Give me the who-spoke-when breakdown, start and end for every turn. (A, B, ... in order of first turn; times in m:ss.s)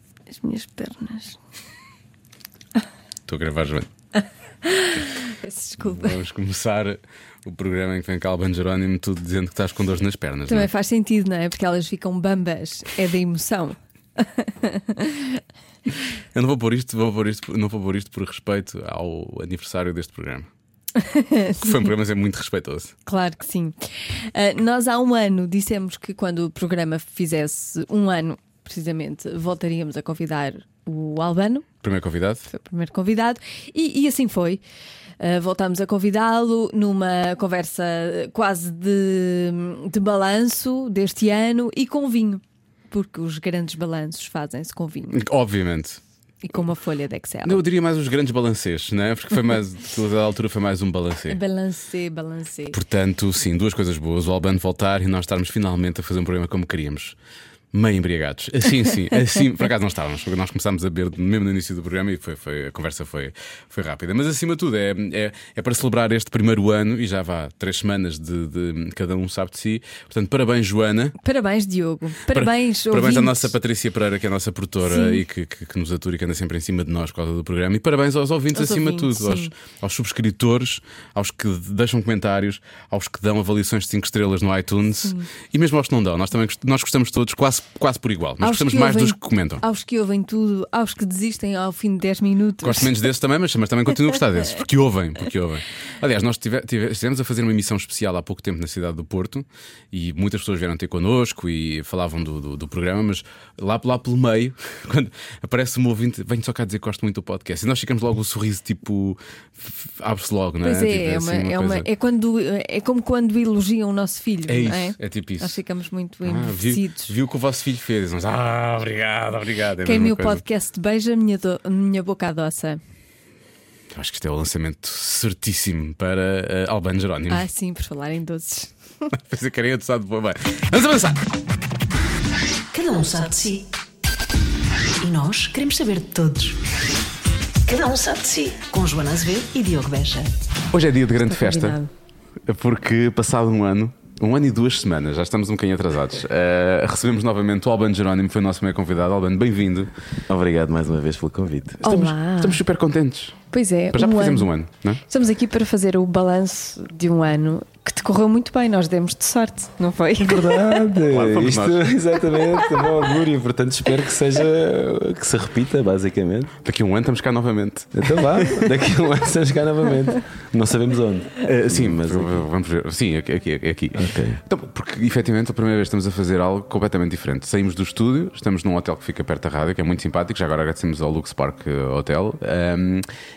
0:00.3-0:01.4 A
0:03.3-0:03.9 B
0:04.6-0:06.2 A
0:05.8-0:10.7 B
0:10.5-0:15.4 A
0:16.3-0:20.5 B
0:21.0-0:21.8 A
0:21.6-0:22.9 B
0:23.0-0:31.7 A
0:31.8-0:32.4 B
0:32.5-0:34.6 A
0:35.2-0:45.2 A
0:45.1-0:46.0 B
0:46.4-0:47.6 A
0:47.4-0:51.4 B
0:51.3-0:52.8 A
0:52.7-0:57.1 B
0:57.7-1:11.2 B
1:11.2-1:13.5 A
1:12.3-1:29.6 B
1:14.8-1:15.2 A
1:18.5-1:19.5 A
1:28.4-1:32.9 A
1:32.6-1:51.9 B
1:50.6-1:57.1 A
1:54.5-1:55.6 B
1:56.2-2:00.4 B
1:59.8-2:02.8 A
2:03.9-2:07.4 B
2:07.3-2:08.7 A
2:09.1-2:11.2 B
2:12.7-2:13.7 C
2:15.0-2:16.7 C
2:17.6-2:20.3 C
2:20.7-2:21.8 B
2:21.2-2:21.9 A
2:22.4-2:29.9 B
2:30.3-2:31.8 D
2:31.8-2:35.0 B
2:31.8-2:32.6 A
2:33.5-2:34.5 A
2:35.1-2:40.6 A
2:40.2-2:46.5 D
2:41.1-2:41.9 B
2:46.6-2:48.2 B
2:47.9-2:52.4 D
2:51.4-3:03.1 B
2:54.0-2:54.4 D